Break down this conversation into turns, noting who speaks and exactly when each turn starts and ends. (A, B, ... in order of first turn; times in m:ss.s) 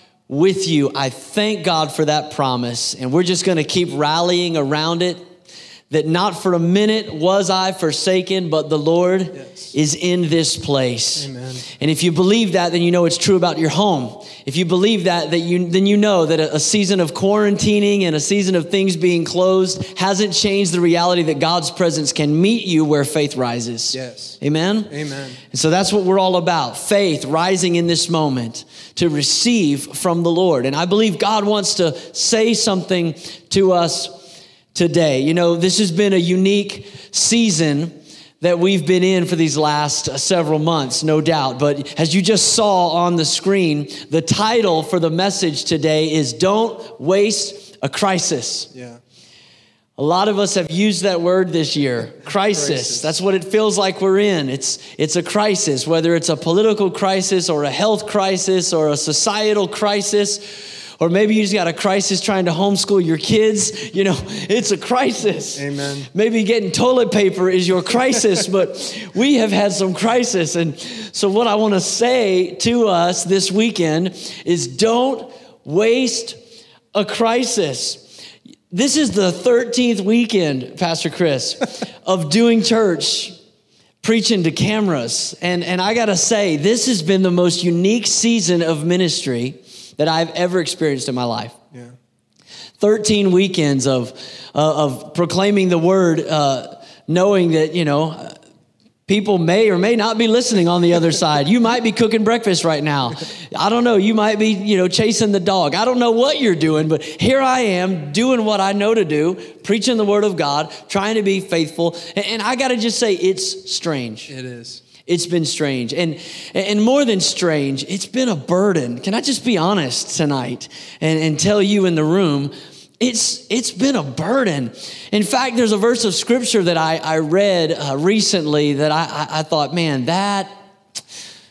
0:00.3-0:05.2 A
0:05.9-0:24.9 A
0:11.2-0:11.6 B
0:23.9-0:24.4 B
0:24.9-0:25.4 B
0:25.5-0:48.7 A
0:48.7-0:49.0 B
0:50.0-1:16.4 A
0:52.3-0:53.1 B
1:05.6-1:06.1 B
1:16.9-1:18.0 A
1:18.7-1:23.3 A
1:24.0-1:31.6 A
1:32.8-1:38.4 A
1:39.1-1:54.3 A
1:54.3-1:54.8 B
1:55.0-2:10.6 A